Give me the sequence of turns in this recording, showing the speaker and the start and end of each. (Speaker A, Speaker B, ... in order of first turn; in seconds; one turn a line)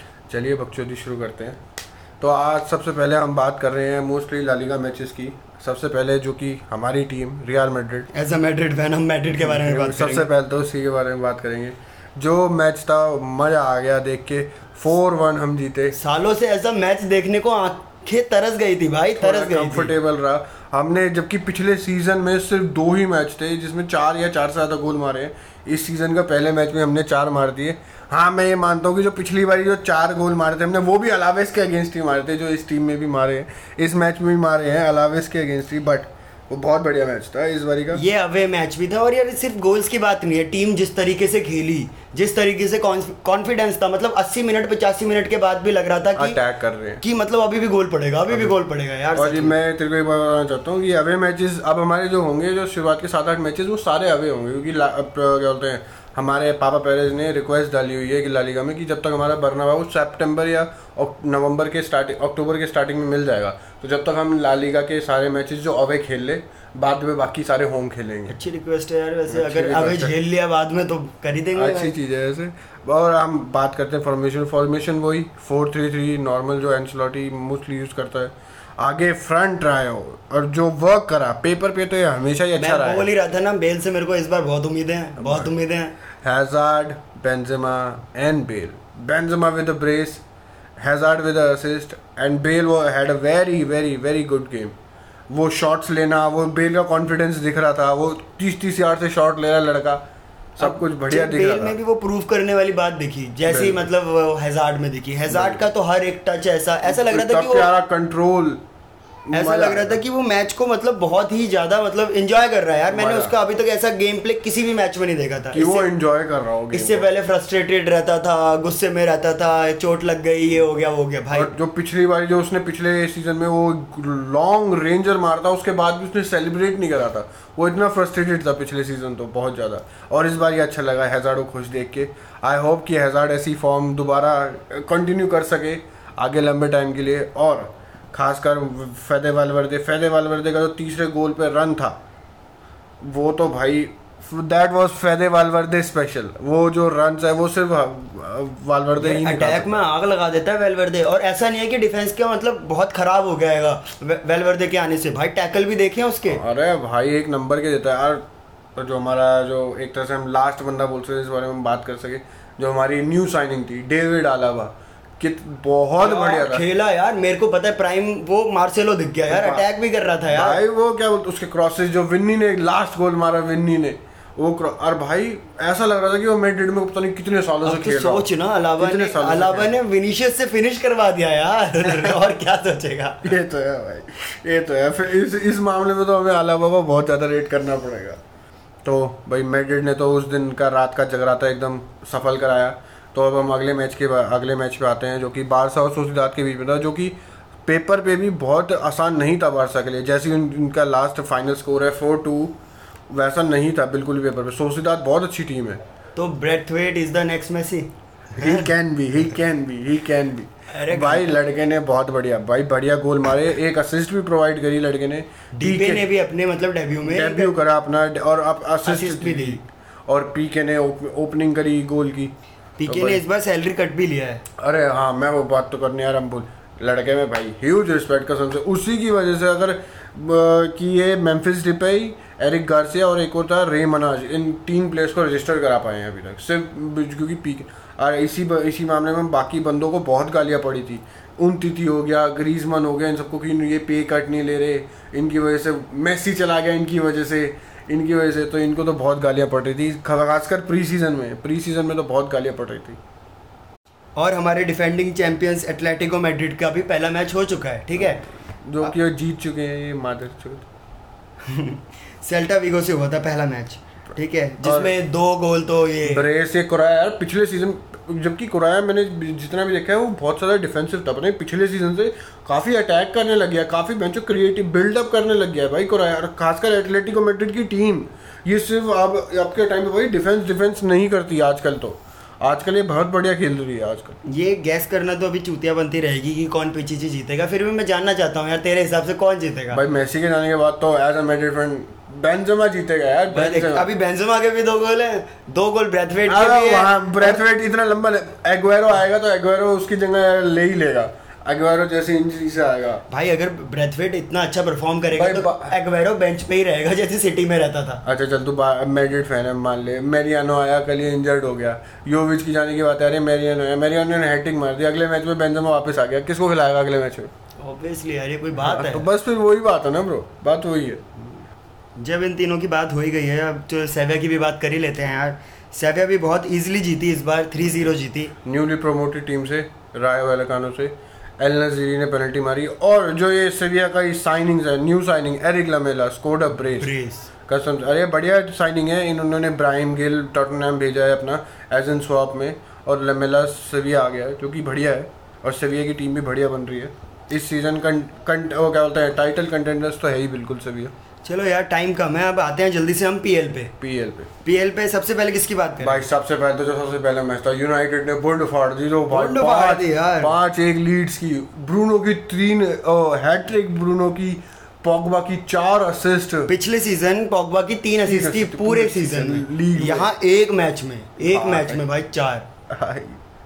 Speaker A: 0.3-1.6
Speaker A: 2.2-8.1
Speaker B: 8.1-10.3
Speaker A: 9.4-15.9
Speaker B: 15.9-19.9
Speaker A: 19.2-38.0
Speaker B: 37.9-46.4
Speaker A: 46.2-47.0
Speaker B: 47.0-49.5
Speaker A: 48.3-48.5
Speaker A: 49.1-68.3
Speaker B: 68.3-71.9
Speaker A: 69.3-70.1
Speaker A: 71.5-83.1
Speaker B: 82.6-86.0
Speaker A: 85.2-85.5
Speaker A: 86.2-90.2
Speaker A: 90.8-94.8
Speaker A: 95.3-100.0
Speaker A: 100.6-101.8
Speaker B: 100.6-107.7
Speaker A: 103.5-103.8
Speaker A: 105.3-105.7
Speaker A: 106.8-108.6
Speaker A: 109.3-110.0
Speaker B: 109.3-115.9
Speaker A: 112.9-113.3
Speaker A: 115.5-117.1
Speaker B: 116.7-121.5
Speaker A: 121.3-142.0
Speaker A: 143.0-149.8
Speaker B: 149.0-156.4
Speaker A: 156.3-158.2
Speaker A: 158.8-166.6
Speaker B: 166.0-170.6
Speaker A: 169.3-169.6
Speaker A: 170.3-178.3
Speaker B: 177.6-183.3
Speaker A: 178.8-179.7
Speaker A: 183.2-188.2
Speaker A: 188.8-197.2
Speaker A: 197.7-202.6
Speaker A: 203.1-205.8
Speaker B: 206.2-208.7
Speaker A: 208.4-216.1
Speaker B: 210.7-211.4
Speaker B: 215.6-217.5
Speaker A: 217.1-222.3
Speaker B: 218.8-219.6
Speaker B: 222.8-224.4
Speaker A: 222.9-223.2
Speaker A: 224.6-253.0
Speaker B: 254.2-258.3
Speaker A: 258.6-260.7
Speaker B: 261.5-266.2
Speaker A: 264.6-264.9
Speaker A: 266.1-284.2
Speaker B: 284.3-289.8
Speaker A: 289.7-293.9
Speaker B: 293.3-297.4
Speaker A: 296.3-303.0
Speaker B: 303.1-308.0
Speaker A: 305.1-305.7
Speaker A: 308.0-317.3
Speaker B: 317.6-319.1
Speaker A: 318.6-321.2
Speaker B: 322.0-328.3
Speaker A: 328.4-336.9
Speaker B: 336.8-337.3
Speaker A: 337.5-350.9
Speaker B: 351.2-353.7
Speaker A: 353.8-354.3
Speaker B: 354.4-356.0
Speaker A: 355.8-366.5
Speaker B: 359.1-360.4
Speaker B: 366.5-372.5
Speaker A: 368.1-370.1
Speaker A: 371.3-371.8
Speaker A: 372.7-373.2